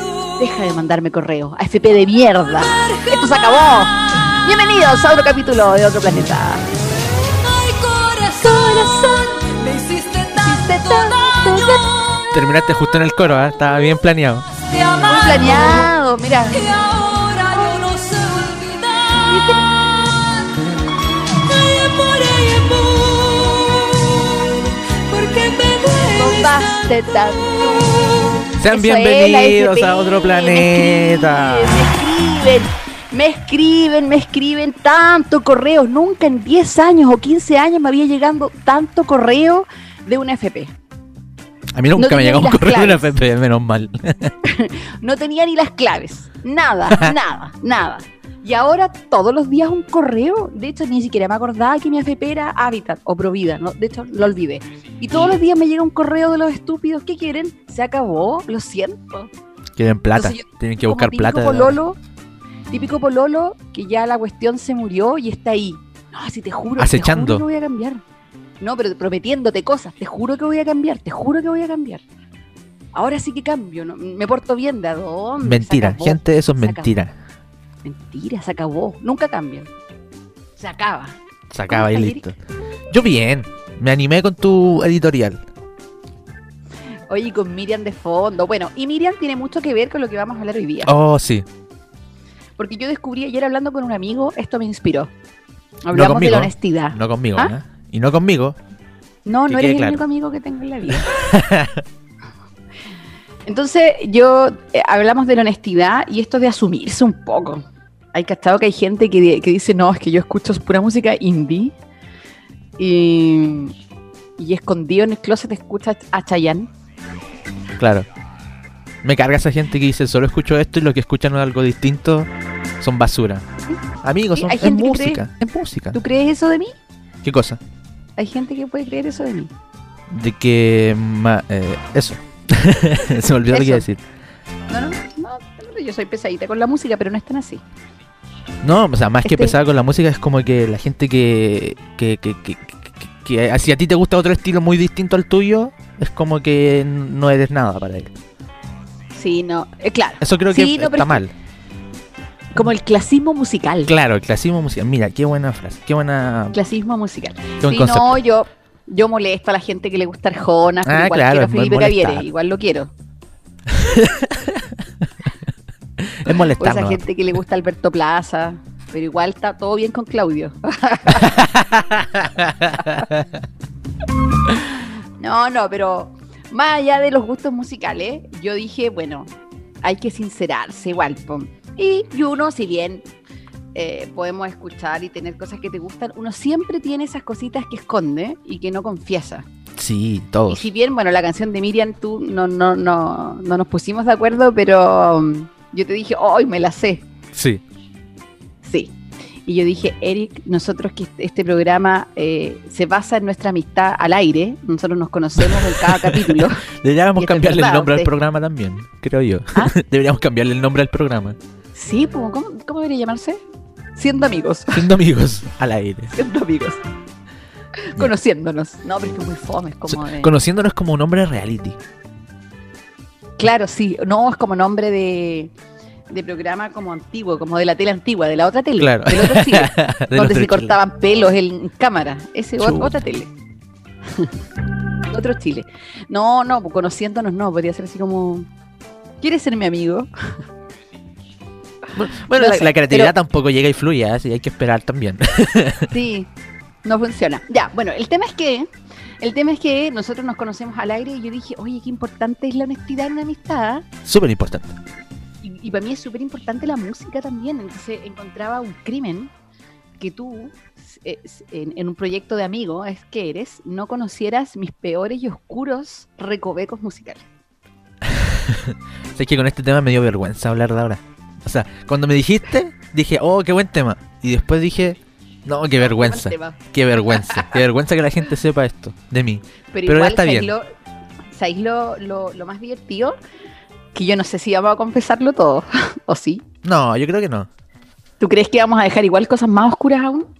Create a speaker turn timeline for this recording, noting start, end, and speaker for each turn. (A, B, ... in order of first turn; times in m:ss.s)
0:00.3-0:06.7 A
0:07.6-0:11.9 A
0:12.3-0:14.5 B
0:14.8-0:20.5 A
0:21.6-0:23.8 A
0:25.1-0:40.7 A
0:28.6-0:31.9 B
0:41.8-0:44.3 B
0:42.0-0:43.1 A
0:44.4-0:59.3 A
0:59.8-1:01.8 B
1:00.1-1:02.0 A
1:02.7-1:08.0 A
1:06.8-1:07.4 B
1:08.6-1:12.0 A
1:13.0-1:16.9 A
1:15.4-1:17.1 B
1:17.8-1:19.7 A
1:20.6-1:21.2 A
1:21.5-1:22.4 B
1:21.7-1:22.3 A
1:22.9-1:25.4 B
1:27.1-1:30.9 A
1:30.9-1:31.5 B
1:32.6-1:35.1 A
1:35.9-1:37.5 A
1:35.9-1:38.6 B
1:39.3-1:41.1 A
1:39.5-1:40.0 B
1:40.9-1:41.8 B
1:43.5-1:51.7 A
1:52.8-1:53.7 A
1:54.4-1:56.7 A
1:57.8-1:58.1 B
1:59.0-2:03.5 B
2:04.0-2:06.0 B
2:04.4-2:05.2 A
2:05.9-2:06.8 A
2:07.2-2:07.6 B
2:08.2-2:09.5 A
2:10.1-2:14.0 B
2:13.5-2:13.9 A
2:14.7-2:17.6 A
2:18.6-2:28.1 B
2:19.2-2:19.6 A
2:29.2-2:31.2 A
2:30.2-2:31.3 B
2:32.5-2:33.9 A
2:33.8-2:36.6 B
2:36.5-2:42.9 A
2:37.6-2:38.2 B
2:40.8-2:42.3 B
2:43.7-2:45.3 B
2:46.0-2:47.0 B
2:46.6-2:51.5 A
2:51.1-2:53.3 B
2:52.7-2:53.1 A
2:55.2-2:59.3 A
2:59.8-3:03.0 A
3:03.8-3:09.5 A
3:09.8-3:10.7 B
3:10.5-3:17.0 A
3:17.3-3:17.6 B
3:18.6-3:18.9 A
3:19.5-3:26.6 A
3:25.4-3:31.4 B
3:27.2-3:28.1 A
3:31.7-3:33.4 A
3:34.0-3:34.9 A
3:34.7-3:36.2 B
3:36.2-3:36.8 A
3:37.8-3:40.4 A
3:39.9-3:41.8 B
3:43.4-3:45.5 A
3:46.1-3:53.3 A
3:48.8-3:50.8 B
3:52.6-3:53.0 B
3:55.1-3:58.5 A
3:59.2-4:00.1 A
4:02.0-4:05.9 B
4:02.4-4:03.1 A
4:05.9-4:06.3 A
4:06.8-4:08.7 A
4:09.2-4:13.9 A
4:14.0-4:14.7 B
4:15.4-4:19.3 A
4:20.0-4:27.2 A
4:28.0-4:40.5 B
4:35.8-4:36.6 A
4:37.1-4:37.6 A
4:39.7-4:40.7 A
4:41.3-4:43.2 A
4:43.9-4:46.4 A
4:46.6-4:47.5 B
4:48.2-4:50.3 A